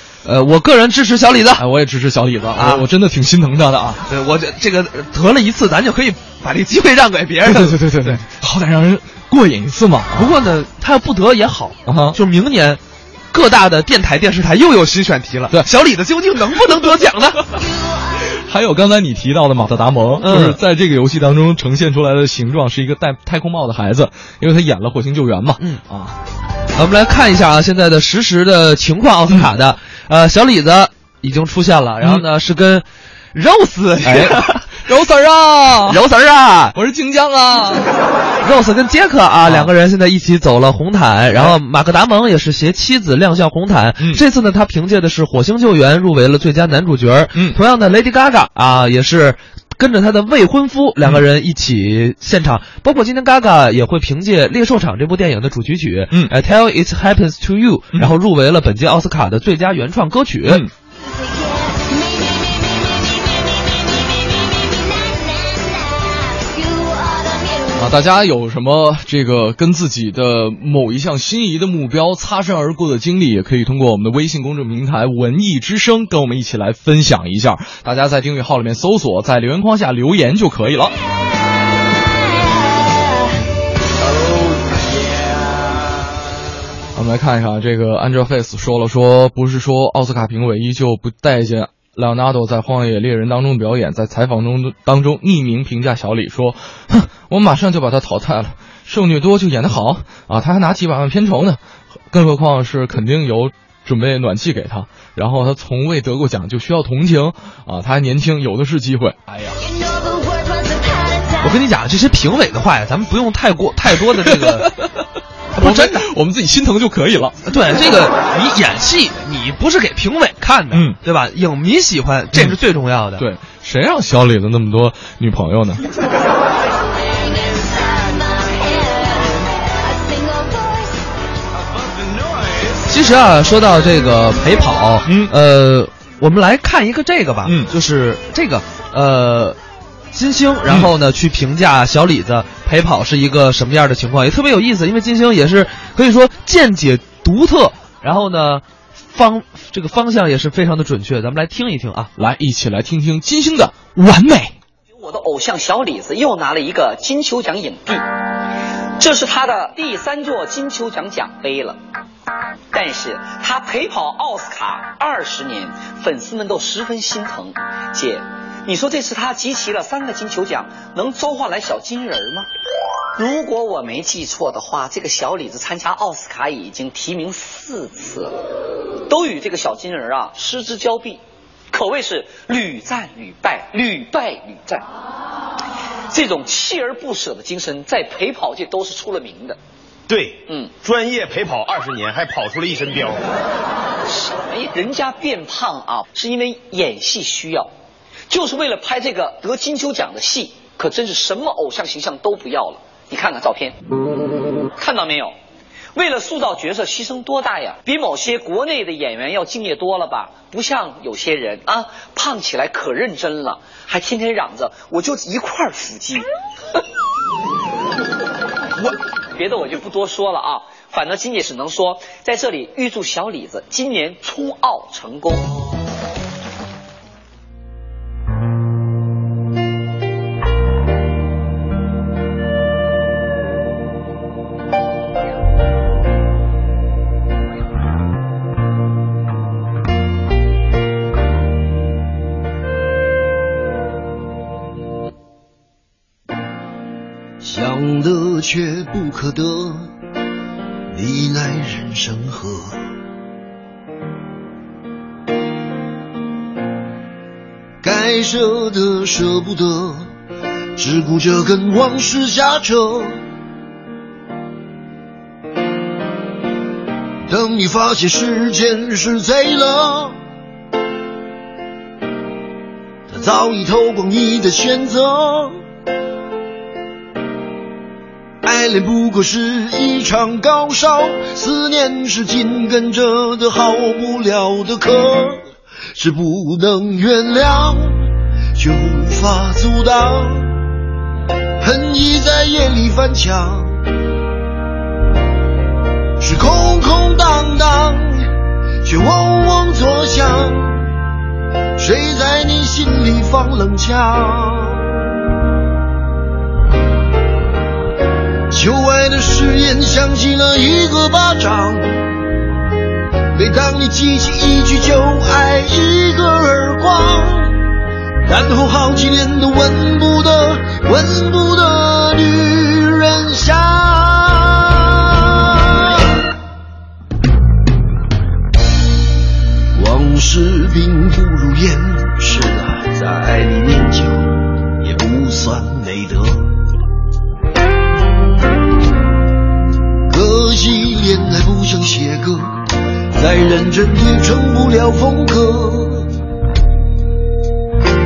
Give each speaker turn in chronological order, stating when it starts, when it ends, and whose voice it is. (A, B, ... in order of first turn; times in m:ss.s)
0:00.2-0:01.6 A
0:01.6-0:04.0 B
0:02.6-0:02.9 A
0:04.1-0:08.2 A
0:07.4-0:10.3 B
0:10.1-0:12.8 A
0:11.9-0:12.2 B
0:13.3-0:17.5 A
0:18.4-0:26.2 B
0:20.2-0:20.6 A
0:26.8-0:34.8 A
0:34.0-0:36.0 B
0:35.9-0:36.8 A
0:36.8-0:37.9 B
0:38.4-1:00.6 A
0:39.4-0:39.7 B
0:47.3-0:47.6 B
1:00.5-1:00.7 B
1:07.7-1:21.0 B
1:27.0-1:41.6 B
1:42.1-1:49.6 B
1:51.4-1:54.7 A
1:54.2-1:54.9 B
1:55.6-1:57.4 B
1:55.6-1:56.1 A
1:57.5-2:03.2 A
2:00.7-2:01.0 B
2:03.2-2:05.8 B
2:12.9-2:19.6 A
2:15.0-2:15.3 B
2:17.4-2:17.7 B
2:20.1-2:32.1 A
2:32.2-2:34.6 B
2:35.0-2:38.0 C
2:39.0-2:41.8 C
2:42.7-2:52.5 C
2:53.2-2:58.3 C
2:59.1-3:01.2 C
3:01.7-3:04.8 C
3:06.1-3:09.6 C
3:10.1-3:13.2 D
3:10.5-3:10.7 C
3:14.1-3:17.7 C
3:18.3-3:23.8 C
3:24.8-3:25.4 C
3:25.9-3:36.3 C
3:39.4-3:45.5 C
4:07.4-4:09.9 E
4:10.9-4:12.8 E
4:17.8-4:20.1 E
4:20.8-4:23.2 E
4:27.3-4:30.2 E
4:33.1-4:35.6 E
4:38.4-4:50.6 E
4:51.6-4:53.8 E
4:56.2-4:58.3 E
4:58.8-5:00.9 E
5:01.8-5:04.9 E
5:08.5-5:11.9 E
5:13.3-5:17.6 E
5:18.3-5:26.1 E
5:29.8-5:36.5 E
5:40.1-5:42.6 E
5:43.2-5:46.1 E